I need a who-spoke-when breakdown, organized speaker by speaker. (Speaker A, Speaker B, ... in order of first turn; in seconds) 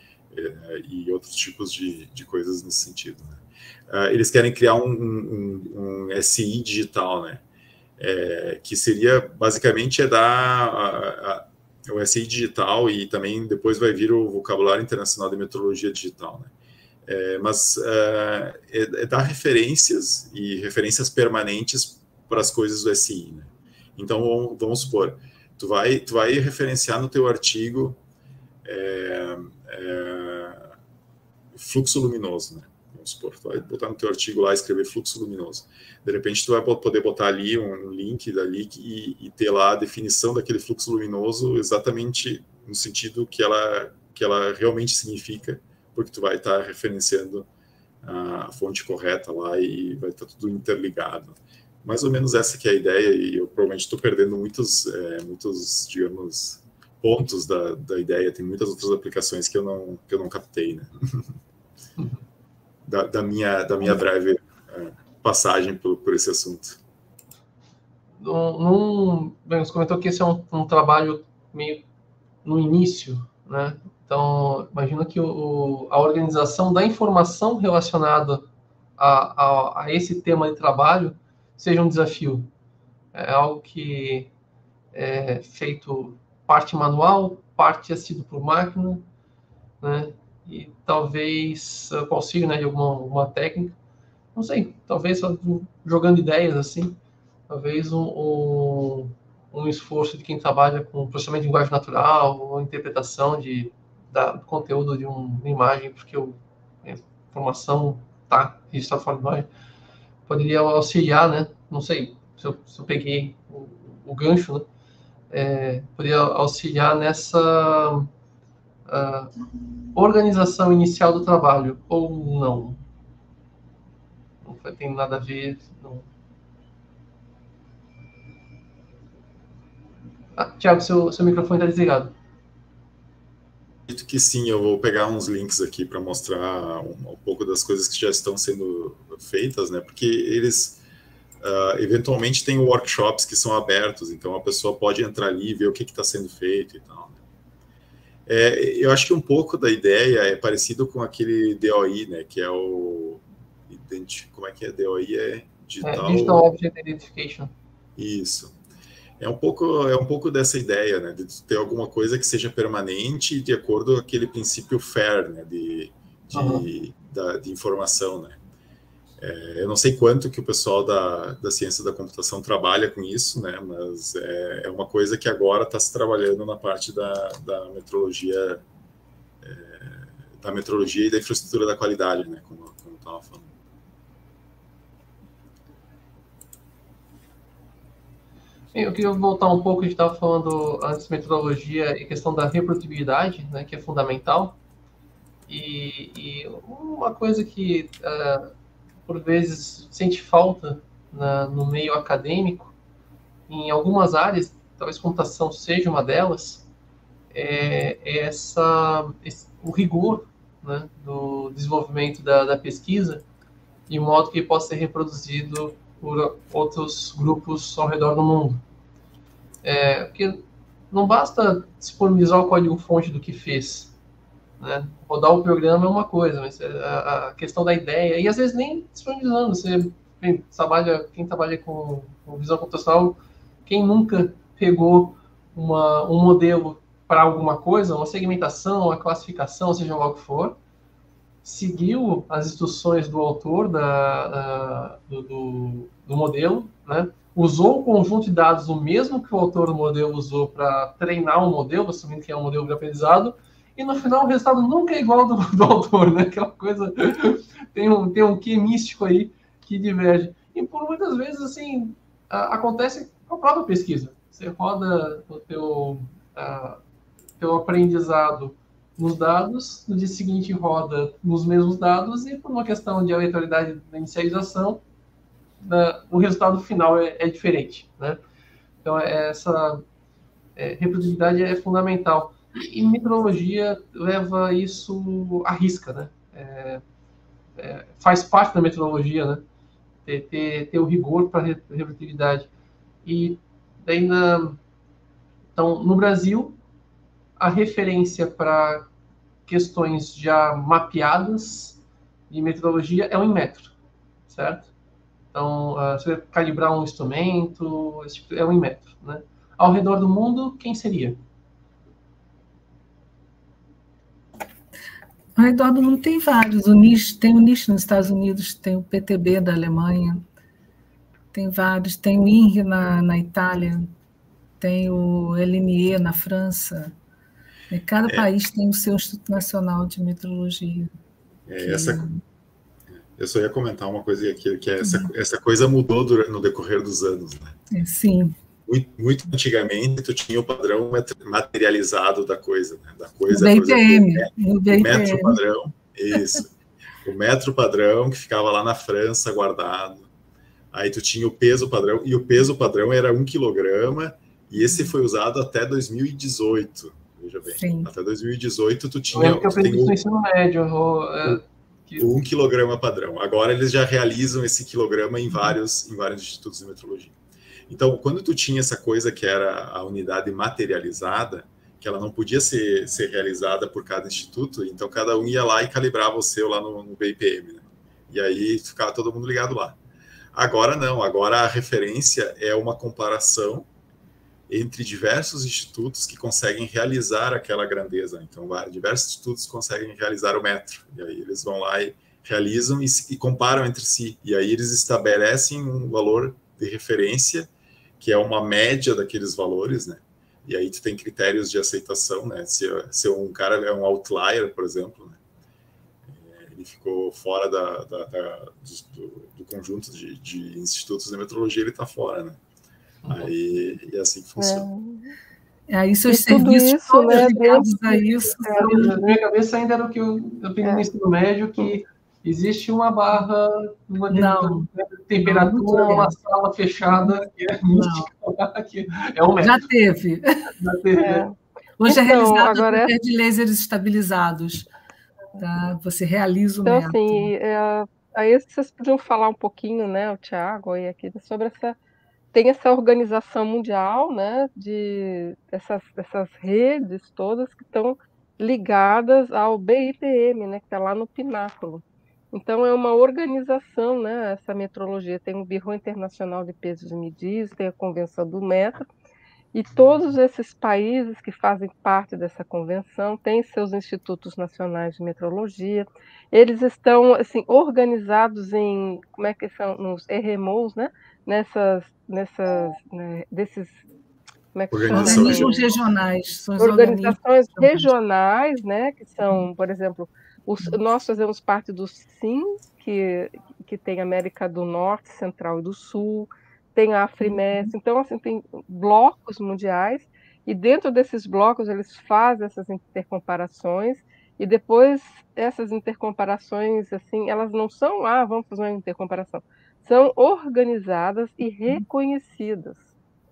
Speaker A: 0.3-7.4, 8.0-16.5, 17.1-28.0, 28.6-30.7, 31.5-47.5, 48.0-61.3, 62.9-66.8, 133.9-140.8, 141.4-147.2, 148.3-156.4, 157.9-158.5, 159.2-168.4, 169.2-178.6, 179.4-183.5, 331.5-332.1, 333.1-337.6, 338.6-346.5, 347.0-350.1, 350.7-359.9, 362.0-367.1, 367.7-379.8, 380.3-383.7, 384.5-405.2, 406.1-412.4, 413.1-414.6, 474.7-475.5
Speaker B: 68.2-71.8, 72.4-78.5, 79.0-82.5, 83.1-84.3, 84.9-89.0, 89.8-93.8, 94.3-97.0, 97.5-109.5, 110.3-114.6, 115.3-118.1, 118.9-119.3, 119.9-122.8, 124.4-126.0, 130.3-132.1, 155.8-157.5, 166.3-166.7, 188.7-194.6, 195.5-198.5, 199.1-202.7, 203.5-206.7, 207.3-213.2, 213.9-218.6, 219.6-223.9, 224.6-240.6, 241.4-266.8, 267.4-274.8, 275.6-278.2, 278.8-279.8, 280.6-286.8, 287.6-289.4, 290.1-292.5, 293.0-294.6, 295.6-296.6, 297.4-298.9, 299.5-301.8, 302.3-303.7, 304.3-304.7, 305.3-311.2, 359.1-362.0, 413.0-413.3, 418.6-429.6, 430.6-431.2
Speaker C: 315.4-320.2, 321.3-323.9, 324.6-326.9, 327.7-330.9, 331.6-332.2, 334.8-335.1, 337.7-338.3, 343.3-345.4, 357.6-357.9, 415.7-419.0, 424.1-424.7, 425.2-426.1, 426.9-427.2, 427.7-428.1, 429.4-430.5, 431.8-434.7, 435.4-437.3, 474.9-477.9, 487.2-487.7
Speaker D: 414.4-415.1, 416.1-419.2, 431.0-432.9, 436.6-441.8, 442.3-458.9, 459.5-473.8, 474.5-475.6, 476.6-502.8